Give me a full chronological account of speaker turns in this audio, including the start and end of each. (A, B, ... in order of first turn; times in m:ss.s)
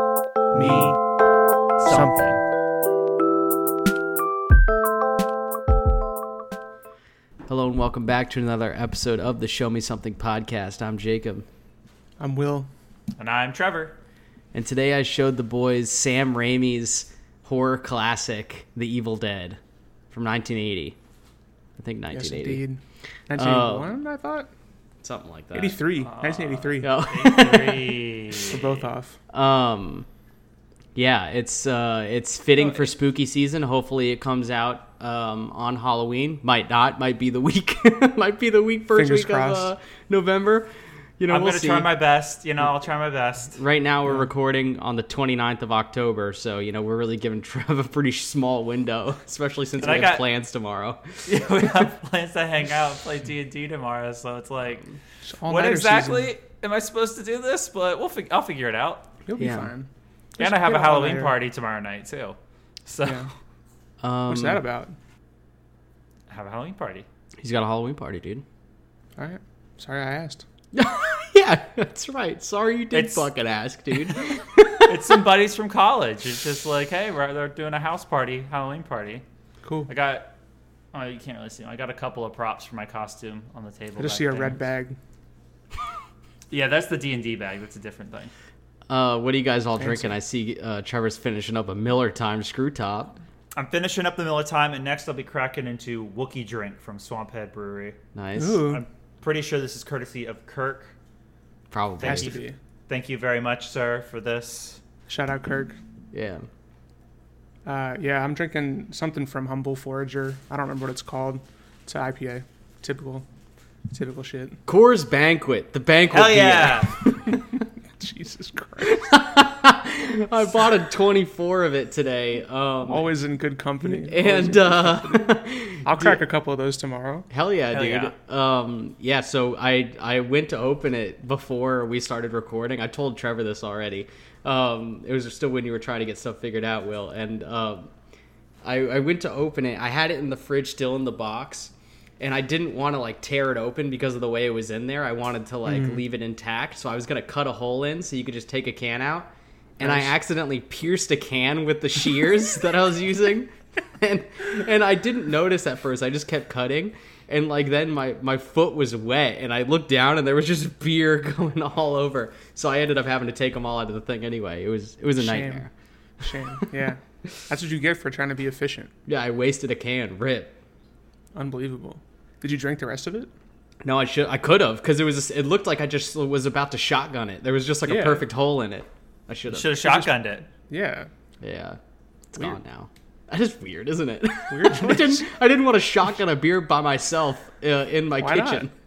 0:00.5-0:01.0 A
0:01.8-0:02.4 A
0:07.5-0:11.4 B
0:12.2-0:12.7 C
0:13.2-0:13.9 A
0:14.5-0:19.6 B
0:20.1-0:21.0 B
0:21.8-0:22.6 B
0:22.1-0:24.5 C
0:23.4-0:23.9 B
0:25.0-0:25.8 B
0:25.5-0:27.0 C
0:26.0-0:28.9 A
0:26.8-0:28.0 B
0:28.3-0:29.2 C
0:29.3-0:30.1 B
0:30.9-0:40.7 B
0:38.9-0:39.7 C
0:41.2-0:41.9 B
0:41.3-0:43.6 A
0:43.6-0:51.2 B
0:49.8-0:50.3 A
0:51.2-0:54.8 A
0:55.2-0:56.3 C
0:55.5-0:59.1 A
0:59.2-1:01.4 C
0:59.4-0:59.7 B
1:00.4-1:03.3 A
1:03.0-1:03.3 C
1:04.0-1:04.6 B
1:04.3-1:04.9 C
1:06.3-1:07.0 A
1:07.4-1:08.4 B
1:09.2-1:10.4 C
1:10.7-1:15.2 B
1:12.9-1:13.3 A
1:14.8-1:19.2 A
1:19.6-1:19.9 C
1:19.9-1:20.3 A
1:20.9-1:24.6 A
1:24.0-1:25.0 C
1:26.5-1:28.3 A
1:28.9-1:33.1 B
1:29.8-1:30.1 C
1:33.5-1:38.0 A
1:38.1-1:38.7 B
1:38.4-1:38.8 C
1:38.7-1:40.9 A
1:41.7-1:42.4 B
1:42.0-1:42.4 A
1:42.0-1:42.6 C
1:42.9-1:44.8 A
1:45.1-1:45.8 C
1:46.1-1:46.4 B
1:47.6-1:53.2 C
1:53.9-1:54.6 C
1:54.6-1:56.9 B
1:56.1-1:57.0 A
1:57.5-1:59.2 C
1:58.8-2:03.1 B
2:02.8-2:07.3 C
2:03.9-2:06.2 B
2:07.3-2:17.9 B
2:07.7-2:08.1 A
2:18.6-2:29.3 B
2:29.8-2:45.7 B
2:29.8-2:30.1 C
2:45.2-2:45.6 C
2:46.2-2:48.9 C
2:49.1-2:50.5 B
2:51.3-2:53.3 C
2:53.8-2:59.8 B
2:57.8-2:58.2 C
2:59.5-3:00.5 A
2:59.8-3:01.1 C
3:01.4-3:01.8 B
3:02.3-3:08.7 B
3:04.5-3:05.3 C
3:08.2-3:08.7 C